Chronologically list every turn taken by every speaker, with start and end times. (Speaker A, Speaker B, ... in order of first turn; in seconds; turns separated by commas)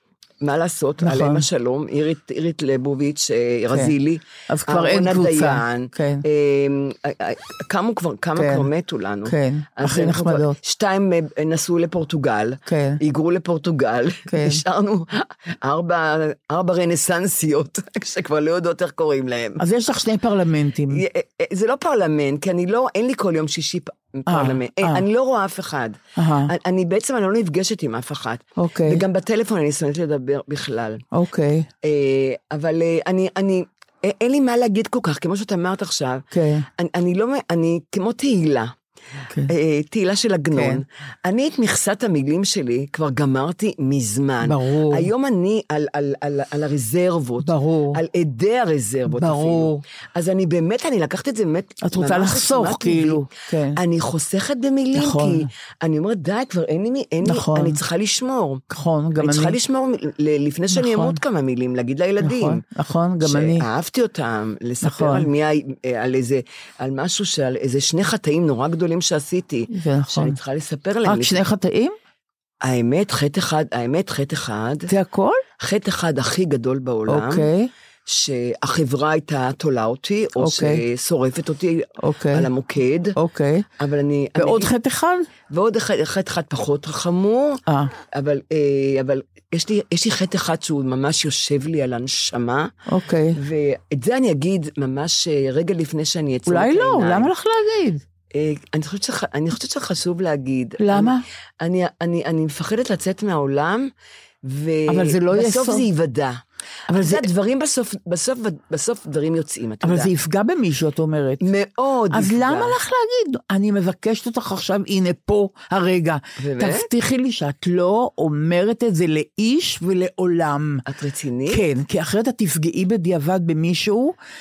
Speaker A: 0.4-19.6, Speaker B: 1.0-1.5, Speaker B: 4.5-6.2, Speaker B: 8.4-8.7, Speaker B: 9.3-10.6, Speaker B: 12.7-13.0, Speaker B: 14.3-14.6, Speaker B: 19.6-21.0, Speaker A: 20.9-31.0, Speaker B: 24.3-25.1, Speaker B: 26.2-26.5, Speaker B: 28.6-29.0, Speaker B: 31.1-31.7, Speaker A: 31.8-38.7, Speaker B: 36.3-36.7, Speaker A: 39.5-58.6, Speaker B: 40.5-40.8, Speaker B: 44.4-45.1, Speaker B: 47.4-48.0, Speaker B: 49.1-49.8, Speaker B: 51.8-53.8, Speaker B: 55.0-55.5, Speaker B: 57.2-57.8, Speaker B: 58.7-59.6, Speaker A: 59.2-62.6, Speaker B: 60.7-61.2, Speaker B: 62.2-63.7, Speaker A: 63.2-71.4, Speaker B: 64.8-65.3, Speaker B: 69.7-70.4, Speaker B: 71.0-72.0, Speaker A: 72.6-74.9, Speaker B: 74.9-75.4, Speaker A: 75.6-77.5, Speaker B: 77.1-77.7, Speaker A: 78.1-83.2, Speaker B: 80.4-80.8, Speaker B: 82.0-82.5, Speaker B: 83.2-83.7, Speaker A: 83.8-84.7, Speaker B: 84.4-85.3, Speaker A: 85.5-92.7, Speaker B: 92.9-93.4, Speaker A: 93.3-97.3, Speaker B: 96.5-98.0, Speaker A: 98.3-103.9, Speaker B: 100.8-101.2, Speaker A: 104.4-110.1, Speaker B: 104.9-105.9, Speaker B: 106.9-107.3, Speaker B: 109.8-111.4, Speaker A: 111.4-112.8, Speaker B: 112.1-120.8, Speaker A: 116.4-116.9, Speaker A: 120.9-121.7, Speaker B: 121.5-124.2